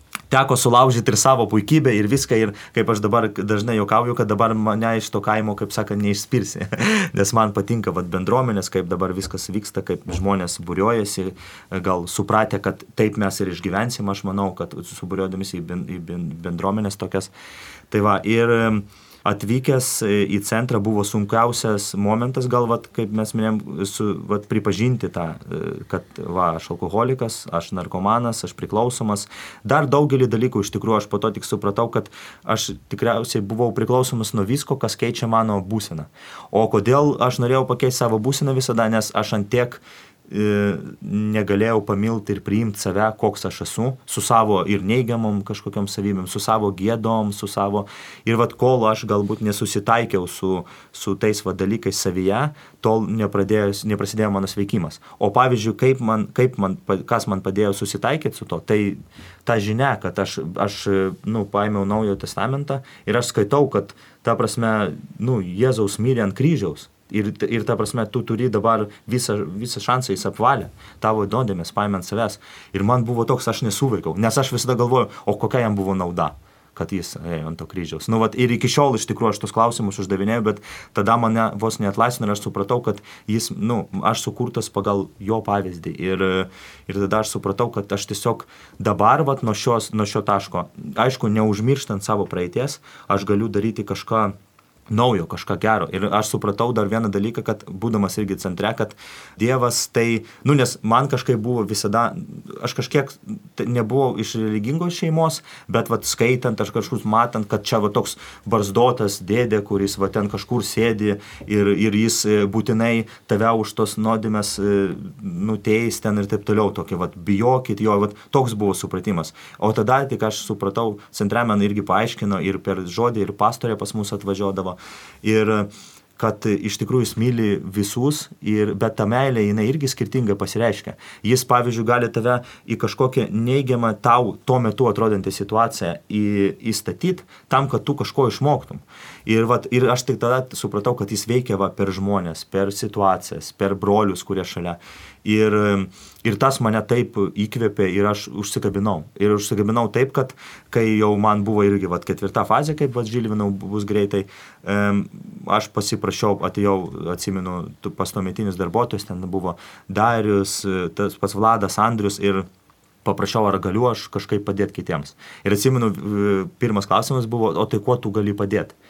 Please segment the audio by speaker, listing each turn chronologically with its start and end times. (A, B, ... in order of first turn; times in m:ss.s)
0:00.3-0:17.3 A
0:17.9-1:34.3 A
1:34.9-2:42.4 A
2:43.0-2:48.7 A